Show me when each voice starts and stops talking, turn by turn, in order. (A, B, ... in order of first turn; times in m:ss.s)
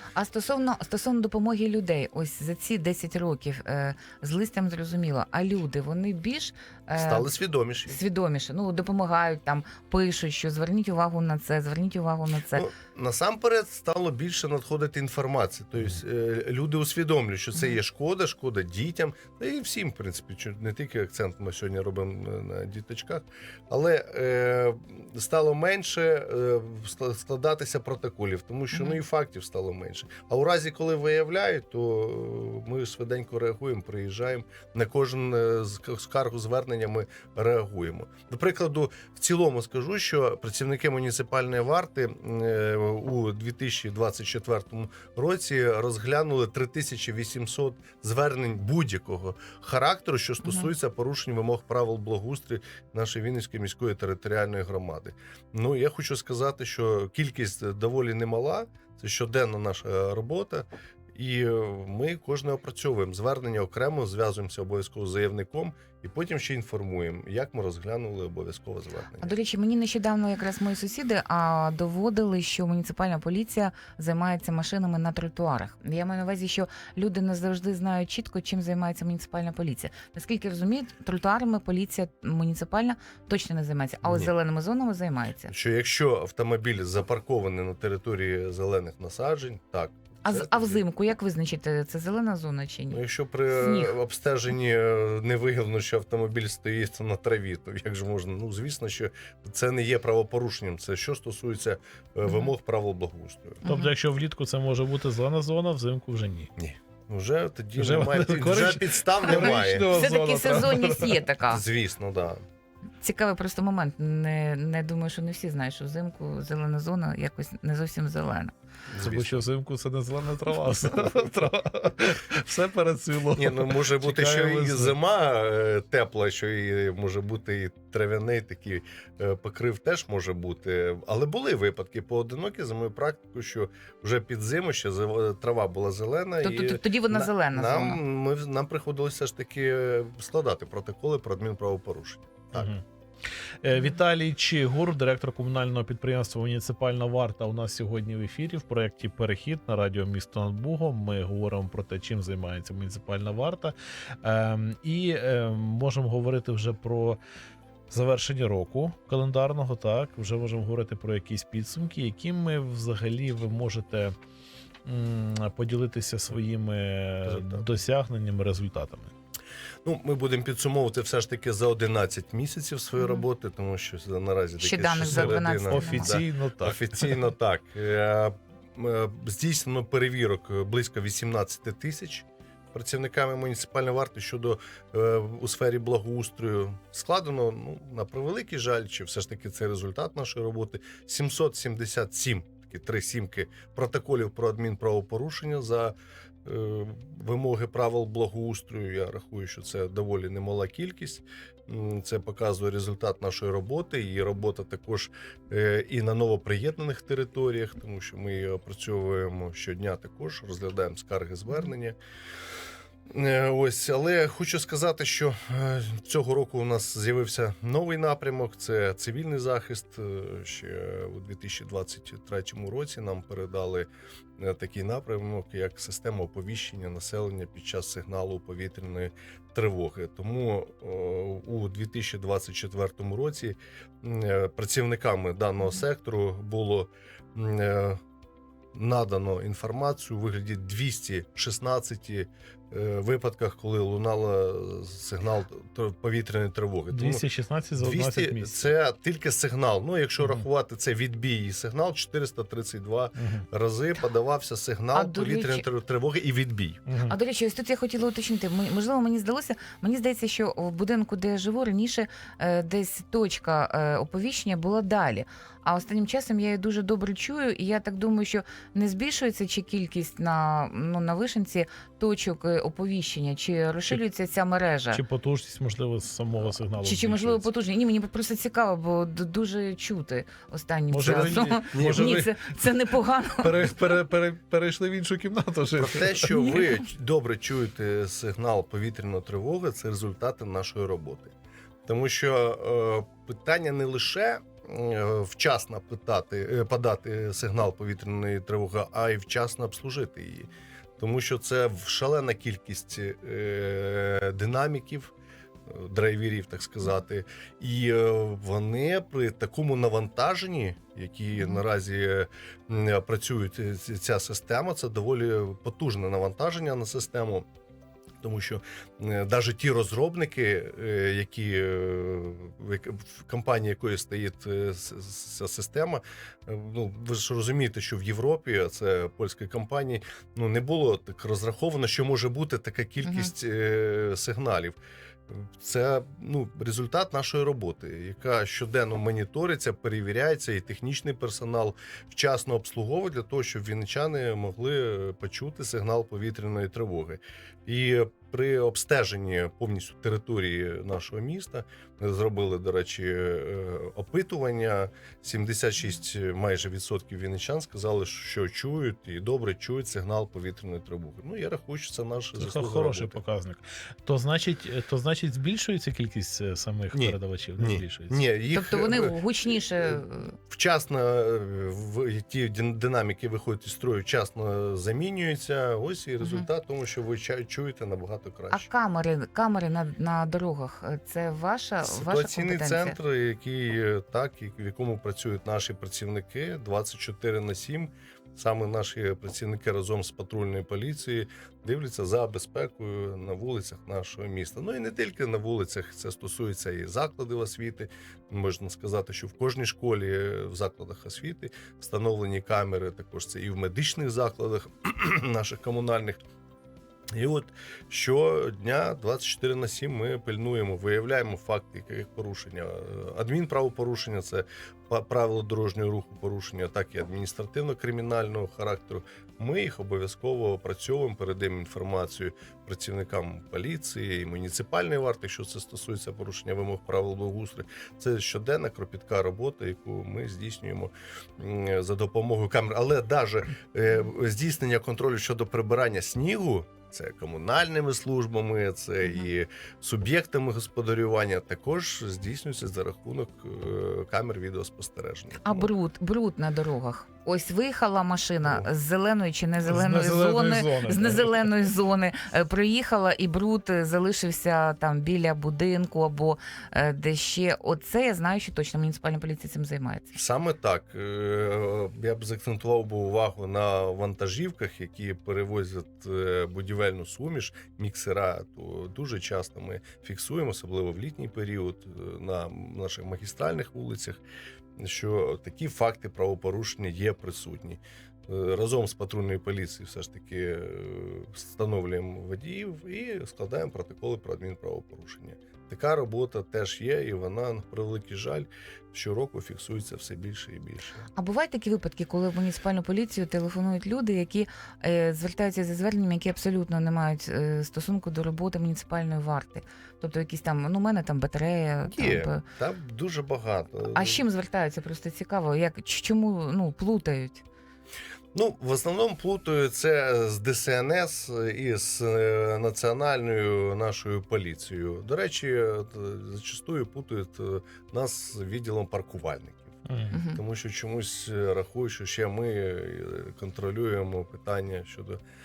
0:00.1-0:07.3 A
0:07.0-0:08.0 B
0:07.9-0:12.6 A
0:12.5-1:09.3 B
0:28.7-0:29.0 A
0:50.4-0:50.7 A
1:09.2-1:25.5 A
1:24.0-1:24.3 B
1:25.5-1:30.8 B
1:30.2-1:33.9 A
1:32.9-1:43.6 B
1:42.2-1:42.5 A
1:43.6-1:43.9 A
1:43.6-1:46.5 C
1:46.6-1:49.9 B
1:47.8-1:51.2 C
1:49.3-1:51.6 A
1:51.5-1:52.4 B
1:53.0-1:58.5 A
1:58.9-1:59.4 B
1:59.0-2:04.9 C
2:03.4-2:22.7 B
2:16.4-2:18.0 A
2:22.5-2:22.8 C
2:23.6-2:37.2 C
2:37.9-2:44.1 C
2:44.8-2:49.1 C
2:47.2-2:47.7 B
2:49.8-3:15.9 B
2:53.0-2:53.2 A
2:54.6-2:56.2 A
2:55.0-2:57.2 C
3:16.4-3:32.0 B
3:33.1-3:58.0 B
3:58.7-4:07.2 B
4:06.9-4:08.7 C
4:07.8-4:16.8 B
4:10.2-4:10.4 C
4:13.2-4:13.4 C
4:14.9-4:15.6 A
4:16.8-4:17.2 C
4:17.1-4:35.0 A
4:34.9-4:37.4 C
4:36.8-4:43.7 A
4:40.9-4:42.3 C
4:41.0-4:42.3 B
4:43.4-4:46.3 C
4:45.8-4:51.3 B
4:46.3-4:46.7 A
4:51.9-5:05.1 B
5:05.6-5:17.4 B
5:11.4-5:11.6 A
5:18.2-5:34.8 B
5:33.0-5:33.3 A
5:35.3-6:03.2 B
6:02.4-6:08.2 C
6:06.9-6:09.2 B
6:08.5-6:10.4 A
6:09.8-6:18.7 B
6:16.2-6:16.5 A
6:18.5-6:23.0 A
6:21.8-6:46.2 B
6:47.1-7:25.7 B
7:25.4-7:40.2 A
7:29.6-7:31.5 C
7:40.1-7:54.2 B
7:54.8-8:11.0 B
8:11.2-8:22.4 A
8:21.9-8:24.2 B
8:23.9-8:27.4 A
8:28.3-8:39.7 B
8:39.8-8:40.1 C
8:40.1-8:40.4 A
8:40.3-8:45.2 B